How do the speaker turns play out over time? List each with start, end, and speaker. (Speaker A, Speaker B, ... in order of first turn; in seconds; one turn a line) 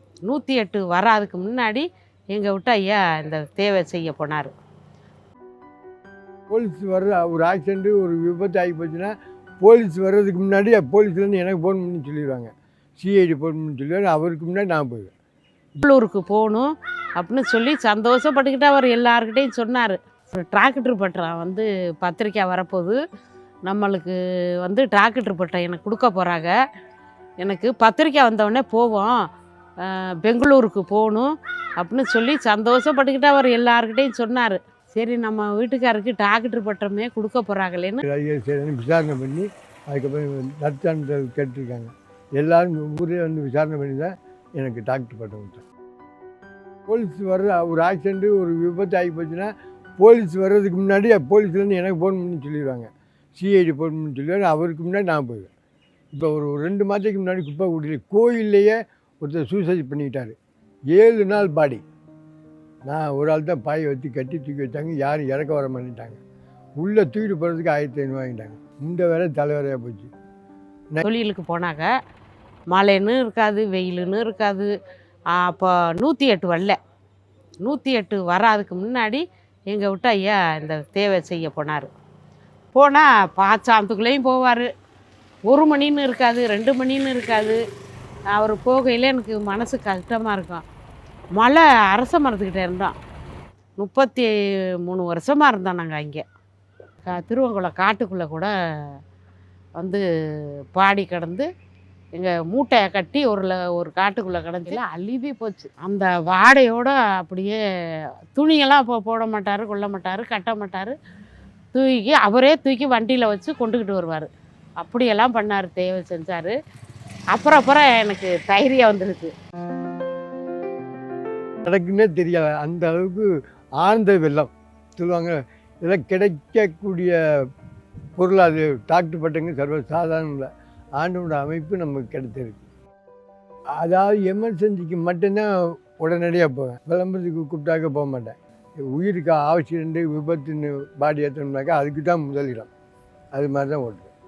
Speaker A: 0.2-4.5
Speaker B: 6.5-15.1
Speaker A: 15.8-23.0
Speaker A: 23.6-26.6
Speaker A: 27.4-29.2
Speaker A: 29.8-38.0
Speaker B: 38.0-45.6
Speaker B: 46.9-55.5
Speaker B: 56.1-60.4
Speaker B: 60.9-61.8
Speaker B: 62.9-66.2
Speaker B: 66.8-70.1
Speaker A: 71.0-71.9
Speaker A: 72.7-74.7
Speaker A: 75.3-76.8
Speaker A: 77.6-81.9
Speaker A: 82.7-84.7
Speaker A: 85.5-87.6
Speaker A: 88.3-90.6
Speaker A: 91.4-92.9
Speaker A: 93.8-94.3
Speaker A: 94.8-96.2
Speaker A: 97.0-98.5
Speaker A: 100.7-101.5
Speaker A: 102.1-107.6
Speaker A: 108.3-110.9
Speaker A: 111.7-114.3
Speaker A: 114.8-116.5
Speaker A: 117.3-119.3
Speaker B: 121.7-123.3
Speaker B: 123.8-127.1
Speaker B: 128.2-132.6
Speaker B: 133.8-142.7
Speaker B: 143.3-144.1